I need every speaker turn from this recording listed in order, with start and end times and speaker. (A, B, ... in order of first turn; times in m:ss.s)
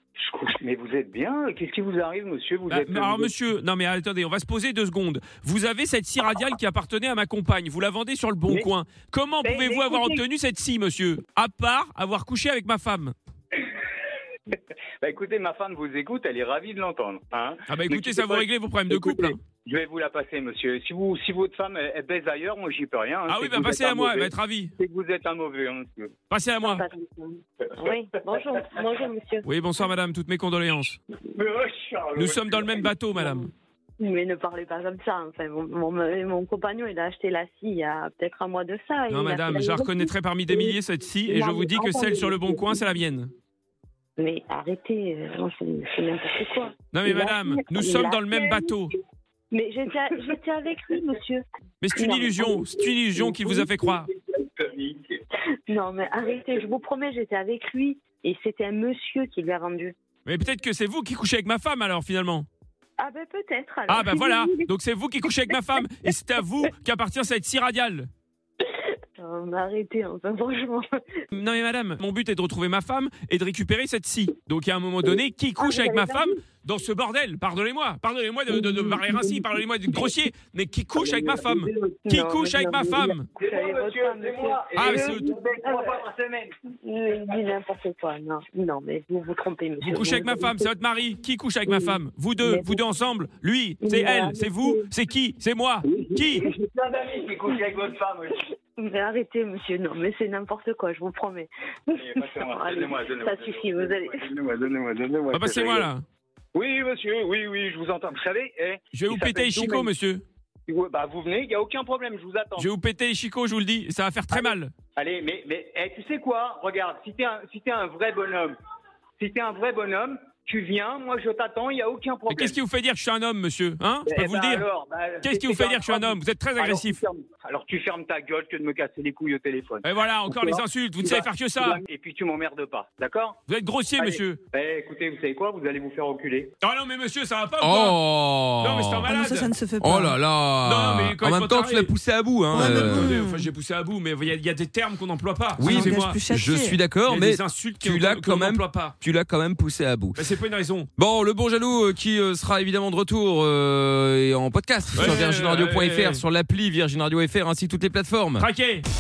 0:00.2-0:03.3 A
0:02.7-0:13.2 B
0:09.4-0:10.2 A
0:15.0-0:26.1 A
0:17.7-0:19.4 B
0:23.3-0:24.7 B
0:26.3-0:26.8 B
0:26.6-0:29.5 C
0:29.4-0:31.0 B
0:31.4-0:32.9 A
0:32.2-0:33.5 B
0:34.0-0:40.7 C
0:39.1-0:43.3 B
0:41.3-0:42.8 C
0:44.2-0:48.6 C
0:46.9-0:49.0 B
0:49.5-0:51.4 C
0:51.8-0:54.1 B
0:52.0-0:52.6 C
0:53.2-0:55.2 A
0:55.7-1:00.0 C
1:00.3-1:02.5 B
1:03.0-1:04.7 C
1:03.9-1:08.1 B
1:05.5-1:05.8 C
1:08.7-1:10.9 C
1:11.3-1:23.3 B
1:15.6-1:16.3 C
1:21.0-1:26.0 C
1:23.4-1:26.5 A
1:24.8-1:25.2 B
1:26.8-1:30.6 C
1:29.8-1:36.5 B
1:31.7-1:32.8 C
1:33.8-1:34.9 C
1:35.8-1:38.4 A
1:38.8-1:44.3 C
1:42.0-1:45.9 A
1:45.3-1:46.0 B
1:46.6-1:49.9 A
1:48.9-1:50.2 B
1:50.7-1:52.7 A
1:52.6-1:54.7 B
1:54.3-1:58.6 A
1:59.2-2:02.6 A
2:02.3-2:04.6 B
2:04.1-2:13.4 A
2:05.2-2:07.0 B
2:09.8-2:11.8 B
2:13.5-2:14.4 B
2:14.0-2:16.5 A
2:16.6-2:18.0 B
2:17.6-2:19.1 D
2:18.6-2:19.5 B
2:19.1-2:20.2 E
2:19.8-2:23.2 D
2:20.6-2:21.9 B
2:22.5-2:26.2 B
2:22.5-2:23.5 E
2:25.6-2:30.2 D
2:25.7-2:26.8 E
2:27.0-2:29.0 B
2:30.2-2:30.9 B
2:31.0-2:38.5 D
2:34.9-2:36.2 B
2:38.4-2:38.8 B